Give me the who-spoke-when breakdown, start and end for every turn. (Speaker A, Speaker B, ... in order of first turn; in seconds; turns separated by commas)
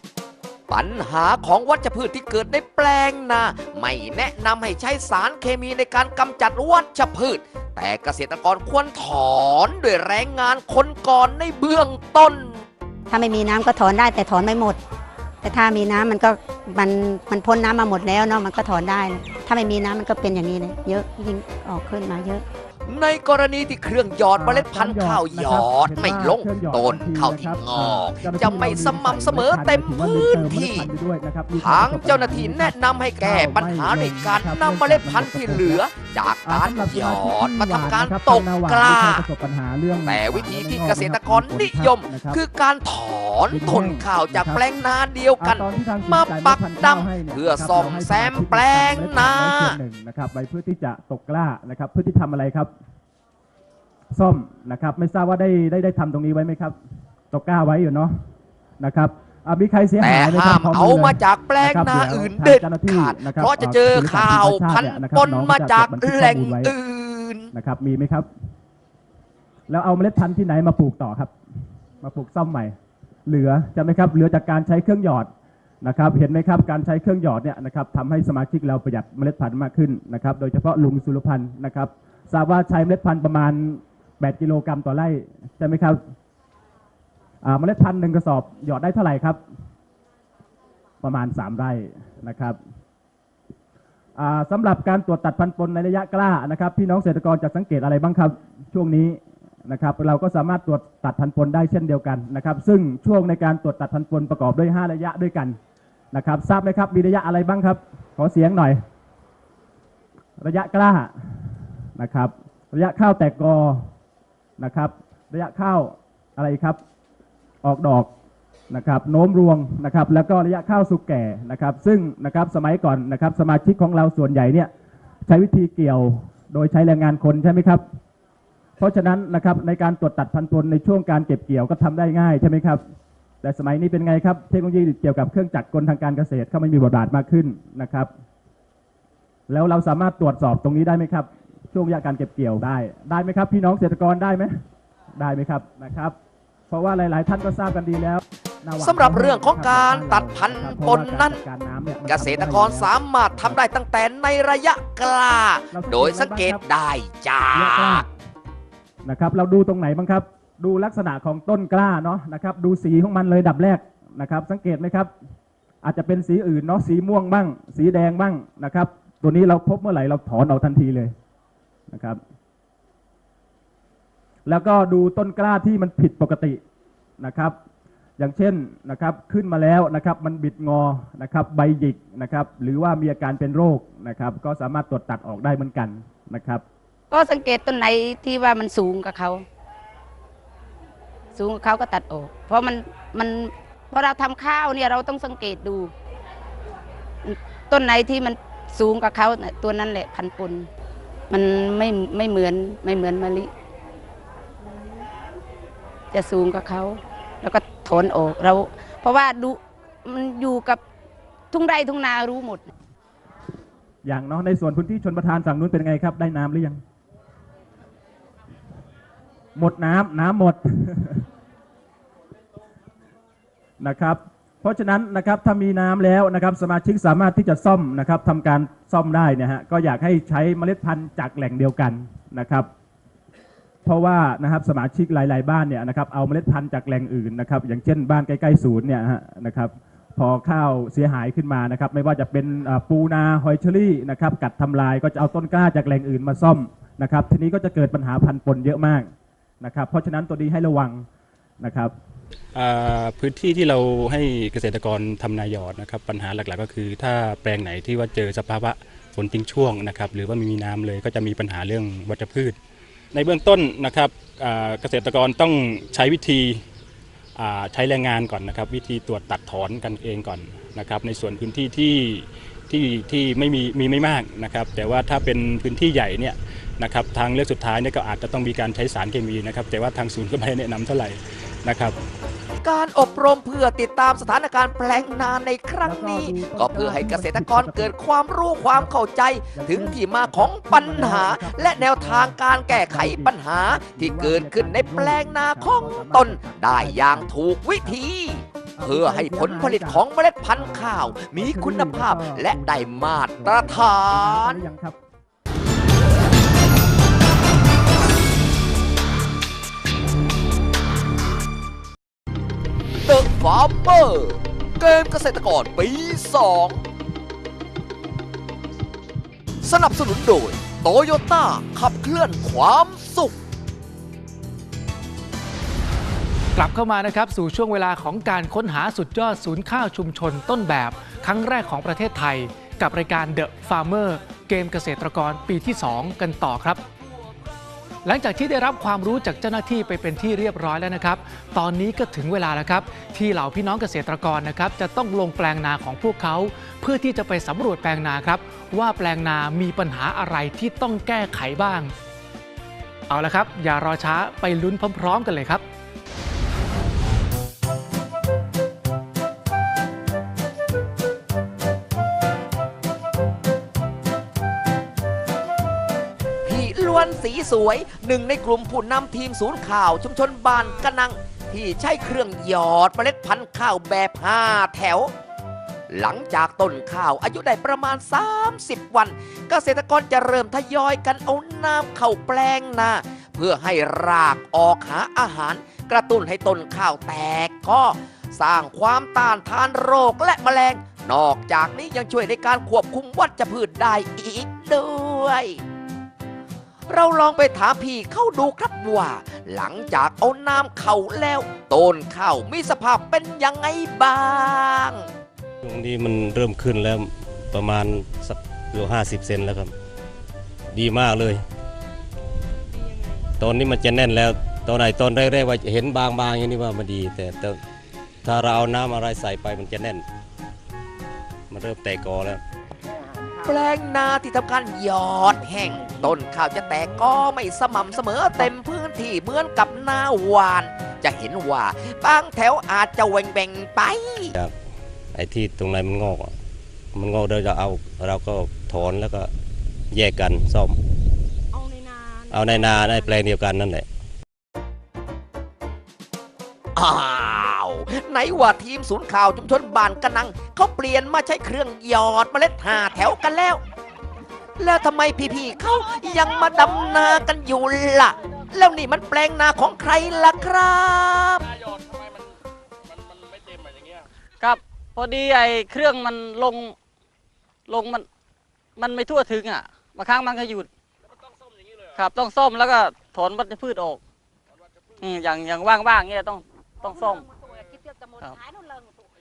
Speaker A: 0.7-12.5, Speaker B: 13.1-14.8, Speaker B: 15.4-22.4, Speaker A: 22.9-30.9, Speaker C: 24.4-35.8, Speaker A: 31.6-39.2, Speaker C: 36.4-42.4, Speaker A: 40.0-49.8, Speaker C: 43.5-44.6, Speaker C: 45.4-52.7, Speaker C: 54.1-56.8, Speaker C: 57.3-58.2, Speaker C: 58.8-66.7, Speaker A: 60.0-67.5, Speaker C: 67.5-68.3, Speaker C: 69.7-71.3, Speaker C: 72.0-72.8, Speaker C: 73.3-75.3, Speaker C: 75.8-86.0, Speaker C: 87.4-89.4, Speaker C: 91.0-92.6, Speaker C: 94.2-105.6, Speaker C: 106.1-108.8, Speaker C: 110.4-111.1, Speaker C: 112.0-113.9, Speaker C: 114.6-116.8, Speaker C: 117.6-118.1, Speaker C: 118.7-124.7, Speaker C: 125.3-127.8, Speaker C: 128.8-132.8, Speaker C: 133.4-138.1, Speaker C: 139.5-144.5, Speaker C: 145.2-146.2, Speaker C: 146.7-153.6, Speaker A: 148.8-151.4, Speaker A: 152.1-158.0, Speaker C: 155.7-156.6, Speaker C: 157.5-158.1, Speaker C: 159.0-165.1, Speaker C: 165.8-171.1, Speaker C: 171.9-172.2, Speaker C: 174.4-176.6, Speaker C: 177.2-177.6, Speaker C: 178.2-186.6, Speaker D: 187.1-189.4, Speaker D: 191.3-195.9, Speaker D: 197.2-200.7, Speaker D: 201.3-203.5, Speaker D: 206.1-210.8, Speaker D: 211.5-212.7, Speaker C: 214.0-216.8, Speaker C: 219.6-221.2, Speaker C: 223.8-232.7, Speaker C: 233.8-251.1, Speaker C: 251.6-251.9, Speaker E: 252.5-262.6, Speaker E: 263.1-266.6, Speaker E: 267.4-281.9, Speaker A: 282.6-304.6, Speaker C: 285.8-287.9, Speaker C: 289.5-297.3, Speaker C: 298.8-305.0, Speaker A: 313.1-316.8, Speaker A: 319.6-323.4, Speaker F: 326.6-336.8, Speaker F: 338.0-351.9, Speaker F: 353.1-355.6, Speaker A: 366.4-375.1, Speaker A: 375.9-395.6, Speaker A: 396.9-405.1, Speaker G: 405.6-409.7, Speaker G: 410.7-411.4, Speaker G: 413.4-417.6, Speaker G: 418.2-420.0, Speaker G: 421.5-422.4, Speaker A: 423.4-434.3, Speaker G: 435.1-436.3, Speaker G: 436.9-439.3, Speaker G: 439.9-440.8, Speaker G: 442.3-443.9, Speaker A: 446.7-453.6, Speaker A: 454.6-461.4, Speaker H: 464.4-466.7, Speaker H: 467.7-468.0, Speaker H: 468.8-470.7, Speaker H: 471.9-474.0, Speaker H: 475.0-477.3